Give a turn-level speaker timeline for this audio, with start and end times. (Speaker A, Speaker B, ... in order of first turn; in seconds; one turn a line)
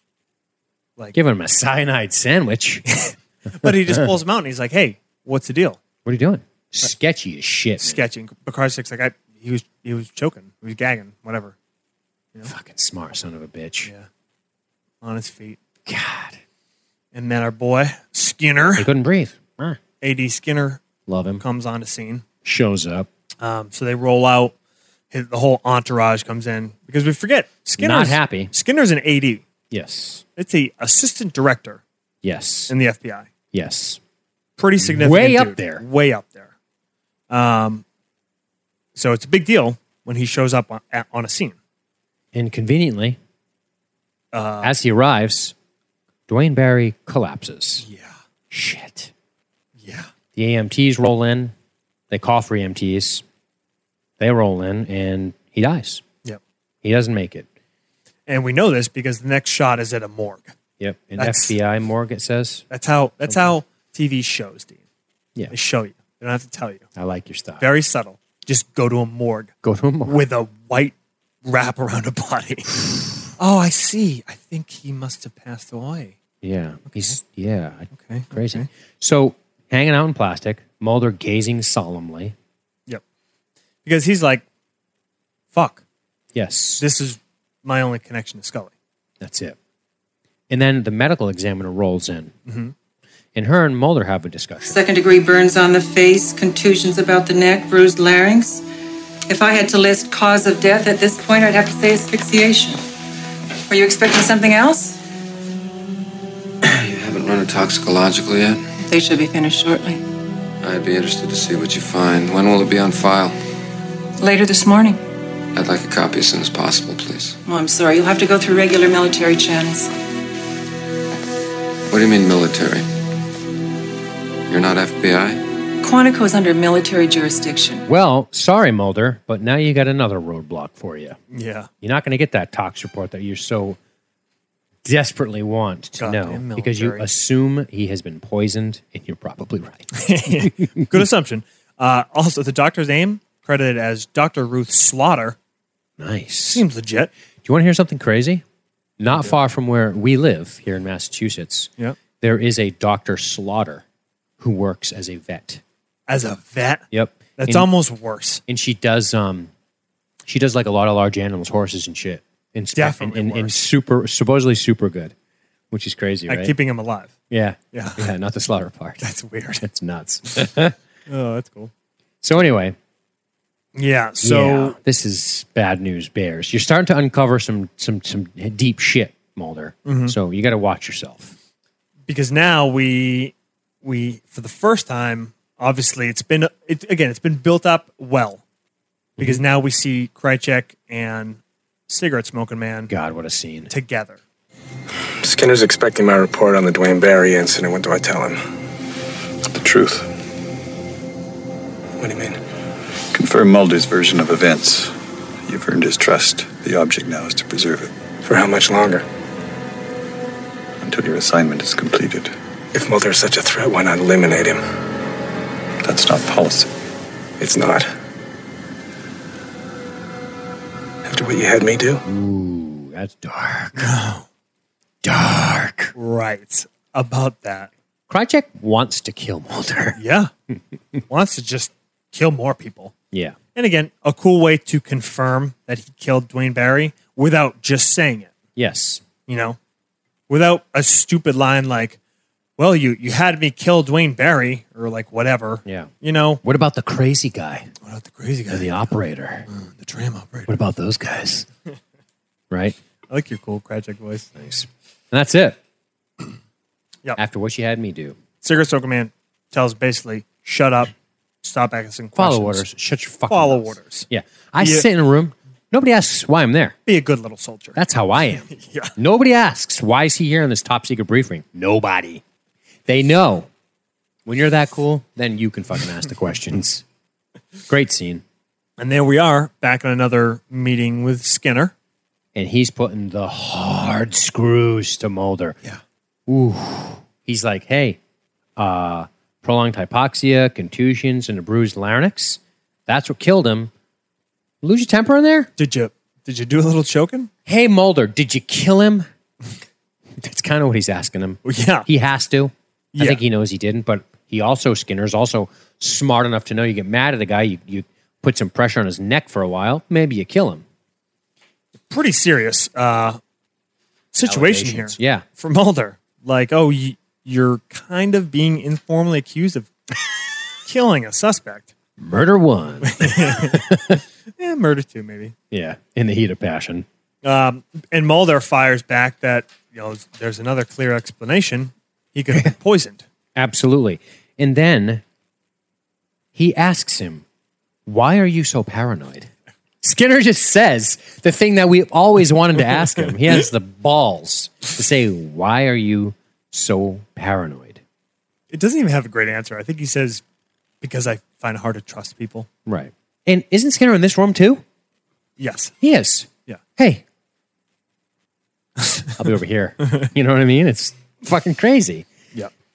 Speaker A: 1.1-2.9
Speaker B: 2.9-5.8
Speaker A: 3.6-4.1
Speaker A: 6.0-8.0
Speaker B: 7.8-11.5
Speaker A: 12.4-13.9
Speaker B: 15.0-15.6
Speaker A: 15.8-16.4
Speaker B: 17.1-18.9
Speaker A: 18.8-19.8
Speaker B: 20.0-20.8
Speaker A: 21.1-21.4
Speaker B: 21.4-22.2
Speaker A: 22.4-23.1
Speaker B: 23.4-24.5
Speaker B: 25.1-29.4
Speaker A: 27.8-28.5
Speaker A: 29.7-30.2
Speaker B: 30.4-31.8
Speaker A: 32.2-32.7
Speaker B: 32.7-33.3
Speaker A: 33.5-34.0
Speaker B: 34.6-36.5
Speaker A: 34.8-35.8
Speaker B: 37.3-37.8
Speaker B: 39.0-41.5
Speaker A: 42.3-43.2
Speaker B: 44.3-44.7
Speaker A: 44.6-45.5
Speaker A: 46.3-47.9
Speaker B: 47.8-48.1
Speaker A: 48.5-49.1
Speaker B: 49.8-50.1
Speaker A: 50.4-51.5
Speaker A: 52.1-53.2
Speaker A: 54.2-56.0
Speaker A: 56.8-57.5
Speaker B: 58.3-60.5
Speaker A: 60.8-62.6
Speaker B: 61.2-61.5
Speaker B: 62.7-64.8
Speaker A: 63.2-63.5
Speaker B: 65.5-66.9
Speaker A: 67.0-67.6
Speaker B: 67.6-69.5
Speaker A: 69.6-70.2
Speaker B: 70.0-72.7
Speaker B: 73.4-76.1
Speaker A: 76.4-82.3
Speaker B: 77.9-78.7
Speaker B: 83.8-84.4
Speaker B: 85.5-85.8
Speaker A: 86.3-86.8
Speaker B: 86.8-88.7
Speaker A: 89.2-89.6
Speaker A: 90.5-92.3
Speaker B: 92.5-92.7
Speaker A: 93.3-94.8
Speaker C: 94.6-98.6
Speaker C: 99.3-102.8
Speaker C: 103.7-105.0
Speaker D: 106.6-108.6
Speaker C: 108.8-110.0
Speaker D: 110.6-113.3
Speaker C: 114.2-115.0
Speaker D: 115.5-117.4
Speaker C: 117.4-119.9
Speaker D: 121.9-122.8
Speaker D: 124.5-125.4
Speaker C: 125.8-127.8
Speaker A: 127.9-131.2
Speaker B: 131.3-131.7
Speaker A: 131.8-133.8
Speaker A: 134.8-140.9
Speaker B: 136.0-137.1
Speaker B: 139.9-145.3
Speaker A: 146.0-146.6
Speaker B: 146.5-147.1
Speaker A: 147.4-148.4
Speaker A: 149.0-151.7
Speaker A: 152.2-153.8
Speaker A: 154.4-155.6
Speaker B: 156.1-158.4
Speaker A: 156.9-157.7
Speaker A: 158.5-159.5
Speaker A: 160.3-165.1
Speaker B: 162.7-163.6
Speaker A: 165.7-166.5
Speaker B: 166.3-167.1
Speaker A: 167.3-169.0
Speaker B: 167.7-168.1
Speaker B: 169.0-169.6
Speaker A: 169.6-170.7
Speaker B: 171.1-171.7
Speaker A: 172.2-172.8
Speaker B: 173.7-174.8
Speaker A: 174.2-181.3
Speaker B: 179.8-180.1
Speaker B: 182.1-188.4
Speaker B: 189.2-192.9
Speaker A: 192.9-193.7
Speaker B: 193.7-194.2
Speaker E: 195.2-198.4
Speaker F: 199.4-200.1
Speaker E: 202.0-202.4
Speaker F: 203.1-204.9
Speaker F: 205.4-207.9
Speaker E: 208.2-209.0
Speaker F: 210.8-212.3
Speaker E: 212.7-214.6
Speaker F: 215.8-216.7
Speaker E: 217.4-217.9
Speaker E: 221.1-222.0
Speaker A: 222.0-223.9
Speaker B: 223.8-224.2
Speaker A: 225.0-225.9
Speaker B: 225.9-227.7
Speaker A: 228.1-230.0
Speaker B: 230.0-230.3
Speaker B: 231.1-232.9
Speaker B: 233.5-238.3
Speaker A: 238.6-239.0
Speaker B: 239.3-239.6
Speaker B: 240.3-242.0
Speaker B: 242.6-246.4
Speaker A: 245.6-245.9
Speaker A: 246.4-247.7
Speaker B: 247.8-248.7
Speaker A: 248.5-249.5
Speaker B: 249.5-250.5
Speaker A: 250.5-251.5
Speaker A: 252.5-252.8
Speaker B: 253.1-254.3
Speaker A: 254.4-255.6
Speaker A: 257.2-258.1
Speaker B: 258.4-260.9
Speaker B: 261.4-262.6
Speaker A: 262.1-266.8
Speaker B: 263.3-264.1
Speaker B: 264.6-264.9
Speaker B: 266.9-267.8
Speaker A: 267.8-272.2
Speaker B: 268.5-268.9
Speaker A: 272.9-273.5
Speaker A: 274.2-276.8
Speaker A: 277.7-278.2
Speaker B: 278.8-281.7
Speaker A: 282.3-285.6
Speaker A: 286.3-288.0
Speaker A: 288.6-293.7
Speaker A: 294.6-295.5
Speaker B: 295.6-297.3
Speaker A: 297.4-299.1
Speaker A: 300.2-310.6
Speaker B: 301.4-301.9
Speaker B: 302.9-303.2
Speaker B: 311.9-313.2
Speaker B: 314.1-319.7
Speaker A: 314.2-315.2
Speaker B: 320.6-321.7
Speaker A: 322.0-324.0
Speaker B: 322.8-323.8
Speaker B: 324.4-325.3
Speaker A: 325.5-326.9
Speaker B: 327.2-333.0
Speaker A: 333.4-335.0
Speaker A: 336.3-337.2
Speaker A: 337.9-339.3
Speaker A: 339.8-347.8
Speaker B: 348.5-350.2
Speaker B: 350.8-352.5
Speaker A: 352.6-354.6
Speaker B: 355.4-355.7
Speaker A: 355.8-357.0
Speaker B: 358.8-359.1
Speaker A: 359.2-362.1